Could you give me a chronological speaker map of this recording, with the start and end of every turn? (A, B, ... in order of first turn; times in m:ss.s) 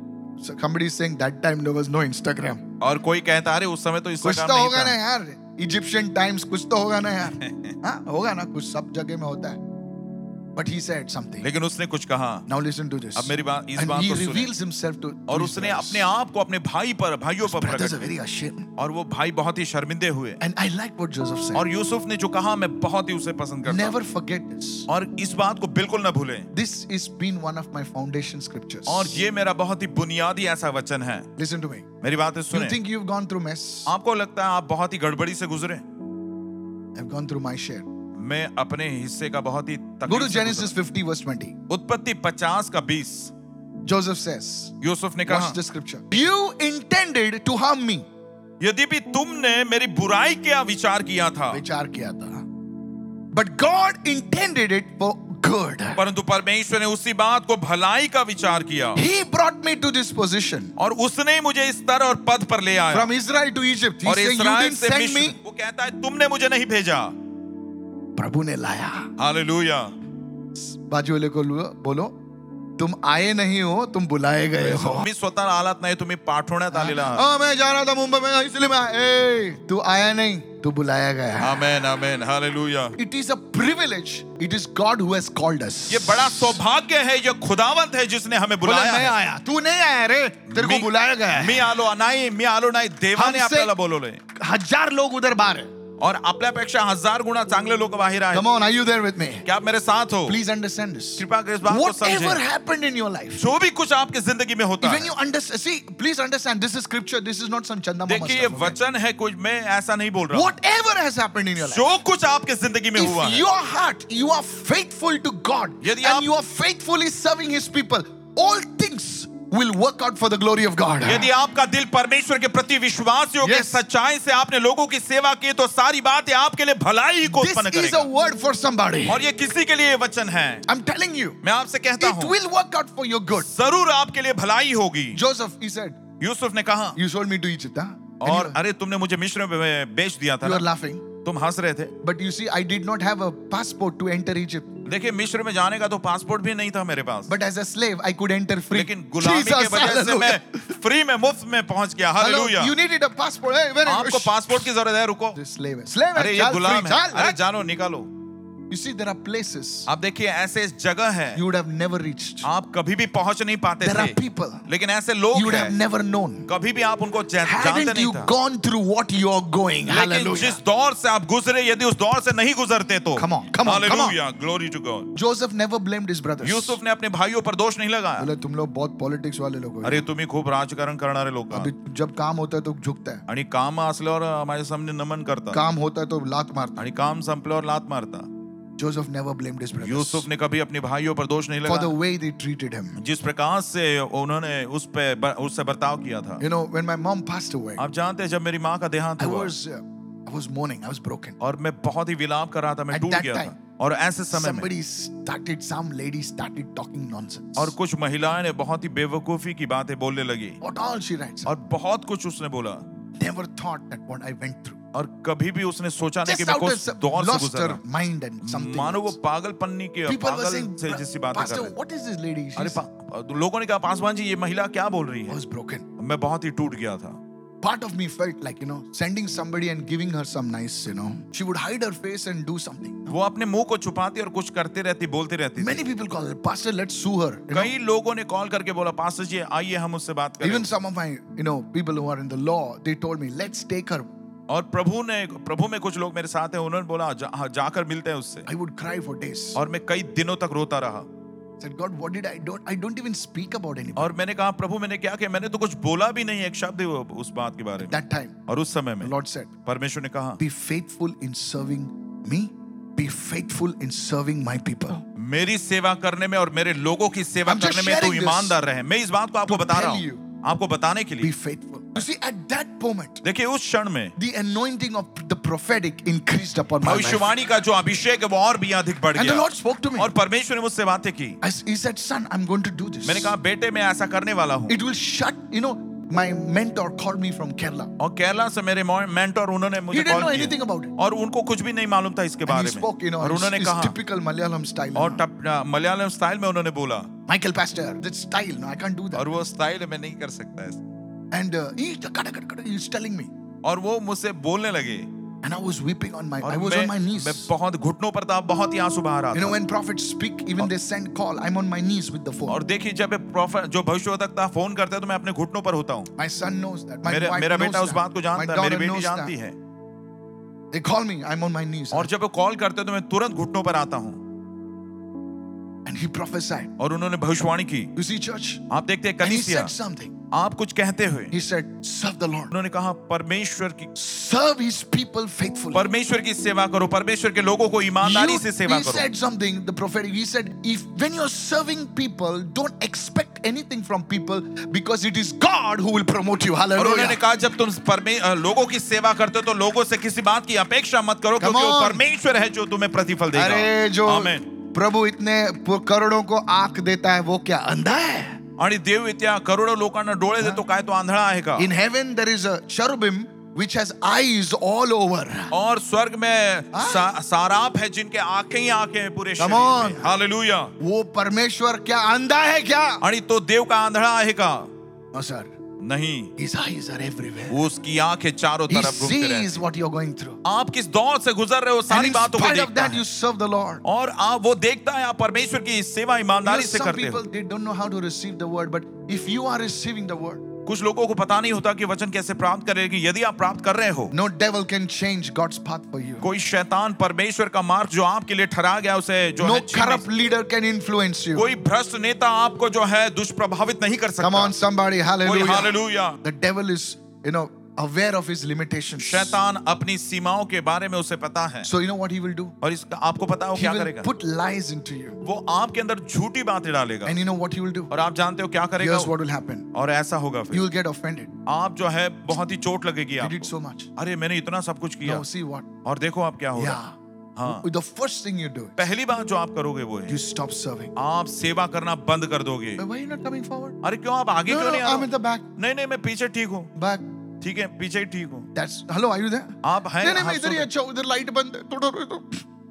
0:00.4-0:02.6 A
0:02.8-0:05.0 B
0:04.2-0:09.6 A
0:07.2-0:07.8 B
0:10.6-0:11.5 A
0:11.4-0:12.4 B
0:12.5-0:16.1 A
0:13.2-0:14.5 B
0:15.3-0:18.1 B
0:17.4-0:18.7 A
0:18.8-0:20.4 B
0:20.4-0:21.6 A
0:21.5-0:24.0 B
0:23.7-0:24.9 A
0:24.9-0:26.5 B
0:26.5-0:29.2 A
0:28.9-0:31.3 B
0:31.4-0:31.9 A
0:32.0-0:32.8 B
0:32.5-0:33.9 A
0:33.8-0:35.8 B
0:37.0-0:37.9 A
0:38.2-0:40.7 B
0:40.1-0:41.6 A
0:41.7-0:43.3 B
0:43.8-0:48.0 A
0:44.8-0:45.6 B
0:48.6-0:51.6 B
0:51.5-0:52.4 A
0:53.3-0:56.0 A
0:56.0-0:59.0 B
0:58.9-1:00.7 A
1:00.8-1:03.1 B
1:02.9-1:05.4 A
1:04.0-1:07.1 B
1:08.2-1:09.1 A
1:09.2-1:09.9 B
1:10.5-1:12.1 A
1:12.8-1:15.0 A
1:14.6-1:17.2 B
1:16.7-1:21.7 A
1:21.4-1:23.0 B
1:23.0-1:26.6 A
1:25.9-1:29.2 B
1:28.6-1:31.7 A
1:30.5-1:34.2 B
1:33.1-1:33.7 A
1:34.3-1:35.7 A
1:36.0-1:38.5 B
1:38.3-1:39.5 A
1:39.4-1:40.4 B
1:40.2-1:43.4 A
1:41.2-1:42.4 B
1:43.4-1:45.1 B
1:44.8-1:48.8 A
1:48.1-1:50.5 B
1:50.3-1:51.9 A
1:51.6-1:53.4 B
1:52.9-2:01.3 A
1:55.8-1:56.3 B
2:01.0-2:08.1 B
2:03.4-2:03.8 A
2:07.2-2:09.2 A
2:09.1-2:10.6 B
2:10.6-2:11.4 A
2:11.4-2:12.3 B
2:12.0-2:13.5 A
2:13.3-2:15.2 B
2:15.1-2:16.0 A
2:16.2-2:17.0 B
2:17.0-2:18.6 A
2:18.2-2:20.7 B
2:20.4-2:21.1 A
2:21.2-2:21.9 B
2:22.0-2:24.8 A
2:24.8-2:27.3 B
2:27.3-2:30.8 A
2:28.7-2:32.7 B
2:32.2-2:34.7 A
2:33.8-2:35.4 B
2:35.3-2:37.4 A
2:36.1-2:38.1 B
2:38.7-2:39.9 A
2:39.9-2:41.4 B
2:41.3-2:42.5 A
2:42.4-2:45.8 B
2:43.8-2:44.7 A
2:45.3-2:46.5 A
2:46.5-2:48.3 B
2:47.4-2:50.6 A
2:49.9-2:55.1 B
2:53.2-2:54.2 A
2:55.1-2:56.8 A
2:56.4-2:58.3 B
2:58.2-3:00.0 A
2:59.8-3:01.7 B
3:01.5-3:03.2 A
3:03.3-3:05.6 B
3:05.5-3:06.8 A
3:06.8-3:08.3 B
3:08.8-3:10.2 A
3:09.8-3:11.9 B
3:11.6-3:13.0 A
3:13.0-3:16.4 B
3:16.4-3:17.8 A
3:17.8-3:19.5 B
3:19.2-3:21.4 A
3:21.4-3:24.7 B
3:22.9-3:23.5 A
3:24.3-3:27.7 A
3:27.6-3:30.6 B
3:30.6-3:31.5 A
3:31.4-3:32.8 B
3:33.2-3:34.8 A
3:34.9-3:37.8 B
3:36.2-3:39.2 A
3:38.4-3:41.7 B
3:40.1-3:42.8 A
3:42.6-3:45.4 B
3:45.3-3:45.8 A
3:46.0-3:47.2 B
3:47.6-3:53.1 A
3:53.1-3:55.8 B
3:55.6-3:57.7 A
3:57.5-4:00.7 B
4:00.4-4:04.1 A
4:04.5-4:08.5 B
4:08.4-4:09.6 A
4:09.5-4:11.1 B
4:11.6-4:14.1 A
4:14.0-4:18.0 B
4:17.8-4:18.4 A
4:18.5-4:19.1 B
4:19.0-4:19.5 A
4:19.6-4:20.4 B
4:20.4-4:25.0 A
4:25.1-4:31.3 B
4:27.5-4:28.6 A
4:29.4-4:30.2 A
4:31.2-4:33.2 A
4:33.2-4:34.1 B
4:34.2-4:37.3 A
4:36.8-4:41.4 B
4:39.2-4:40.1 A
4:41.4-4:43.3 A
4:43.0-4:44.8 B
4:44.7-4:47.9 A
4:48.0-4:54.0 B
4:49.9-4:50.9 A
4:52.4-4:55.2 A
4:54.9-4:57.1 B
4:57.3-4:59.3 A
4:59.1-5:00.8 B
5:01.3-5:03.3 A
5:03.6-5:05.1 B
5:05.4-5:07.5 A
5:06.4-5:09.6 B
5:09.3-5:12.6 A
5:12.5-5:16.1 B
5:16.1-5:19.3 A
5:17.0-5:19.6 B
5:20.7-5:22.1 A
5:21.9-5:24.2 B
5:25.8-5:26.7 A
5:26.8-5:27.9 B
5:27.9-5:28.6 A
5:28.7-5:29.7 B
5:29.2-5:30.2 A
5:30.3-5:31.3 B
5:31.3-5:32.5 A
5:32.5-5:33.9 B
5:33.9-5:35.8 A
5:35.7-5:39.1 B
5:38.0-5:47.2 A
5:46.8-5:54.4 B
5:51.4-5:52.0 A
5:53.3-5:58.4 A
5:58.6-6:01.7 B
6:01.6-6:05.5 A
6:05.5-6:10.7 B
6:06.7-6:07.1 A
6:09.4-6:10.1 A
6:10.8-6:13.0 A
6:13.0-6:14.7 B
6:15.1-6:15.5 A
6:15.8-6:16.3 B
6:16.4-6:17.6 A
6:17.5-6:19.6 B
6:18.7-6:20.4 A
6:20.4-6:23.0 B
6:21.9-6:23.8 A
6:23.8-6:27.2 B
6:26.4-6:30.4 A
6:30.6-6:34.1 B
6:34.1-6:36.2 A
6:36.2-6:40.0 B
6:39.4-6:41.5 A
6:41.3-6:44.6 B
6:44.2-6:49.4 A
6:45.2-6:46.2 B
6:49.0-6:51.7 B
6:51.6-6:52.6 A
6:52.6-6:54.1 B
6:53.5-6:55.2 A
6:55.2-6:57.2 B
6:57.0-6:57.9 A
6:57.9-6:59.1 B
6:58.8-6:59.7 A
6:59.7-7:00.6 B
7:00.5-7:01.3 A
7:01.4-7:05.2 B
7:03.2-7:03.9 A
7:05.0-7:05.7 A
7:05.8-7:06.8 B
7:06.5-7:08.8 A
7:07.4-7:07.6 B
7:08.8-7:10.2 B
7:10.1-7:10.9 A
7:11.0-7:12.8 B
7:12.8-7:13.8 A
7:13.8-7:16.7 B
7:14.4-7:15.5 A
7:16.7-7:17.0 A
7:17.4-7:18.5 B
7:18.5-7:22.4 A
7:19.6-7:20.7 B